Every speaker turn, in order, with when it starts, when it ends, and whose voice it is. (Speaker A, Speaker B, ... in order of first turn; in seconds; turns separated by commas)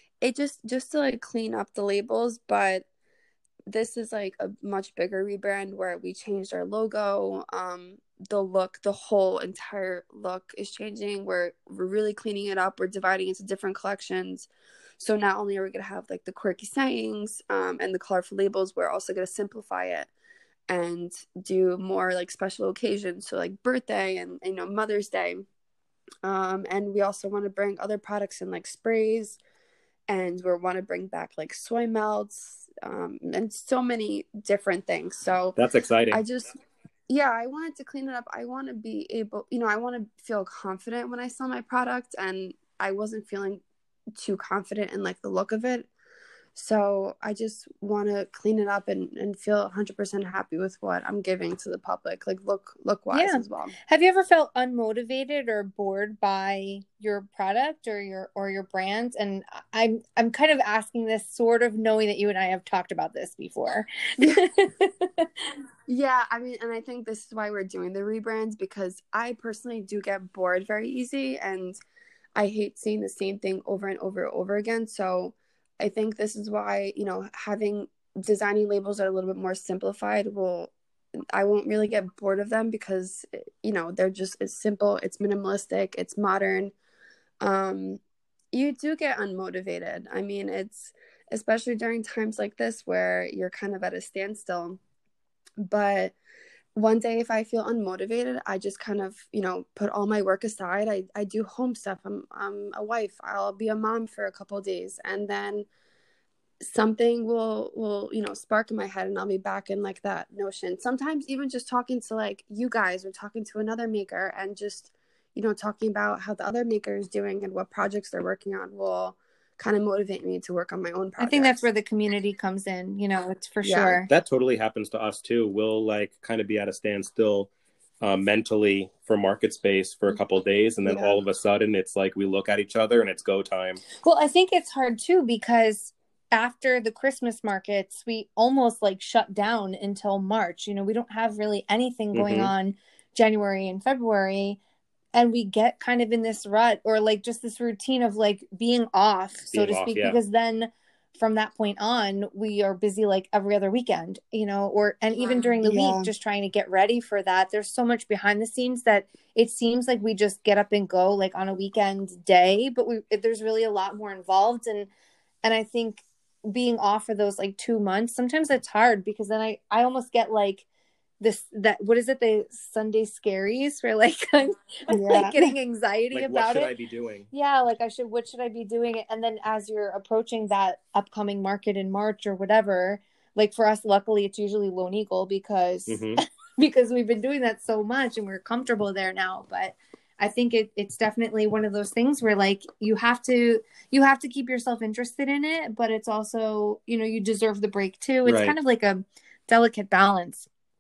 Speaker A: 0.2-2.9, Speaker A: 3.7-20.1, Speaker A: 20.7-25.4, Speaker A: 26.2-29.4, Speaker A: 30.1-35.6, Speaker B: 35.6-36.2, Speaker A: 36.1-36.5, Speaker A: 37.1-43.6, Speaker A: 44.2-45.9, Speaker A: 46.5-53.7, Speaker C: 53.1-65.3, Speaker A: 64.2-64.5, Speaker A: 65.9-71.8, Speaker A: 72.3-80.7, Speaker A: 81.3-86.8, Speaker A: 87.4-88.0, Speaker A: 88.5-94.8, Speaker A: 95.6-96.1, Speaker A: 96.8-105.7, Speaker A: 106.6-121.7, Speaker C: 121.2-124.1, Speaker A: 123.6-124.0, Speaker B: 124.1-127.5, Speaker B: 128.0-133.8, Speaker A: 130.8-131.2, Speaker C: 134.0-144.6, Speaker B: 142.1-142.5, Speaker C: 145.1-164.9, Speaker B: 149.5-150.2, Speaker A: 155.2-156.1, Speaker C: 165.4-170.7, Speaker C: 171.2-176.7, Speaker A: 174.9-175.5, Speaker B: 176.1-177.3, Speaker C: 177.3-200.5, Speaker B: 185.9-186.2, Speaker B: 198.2-198.6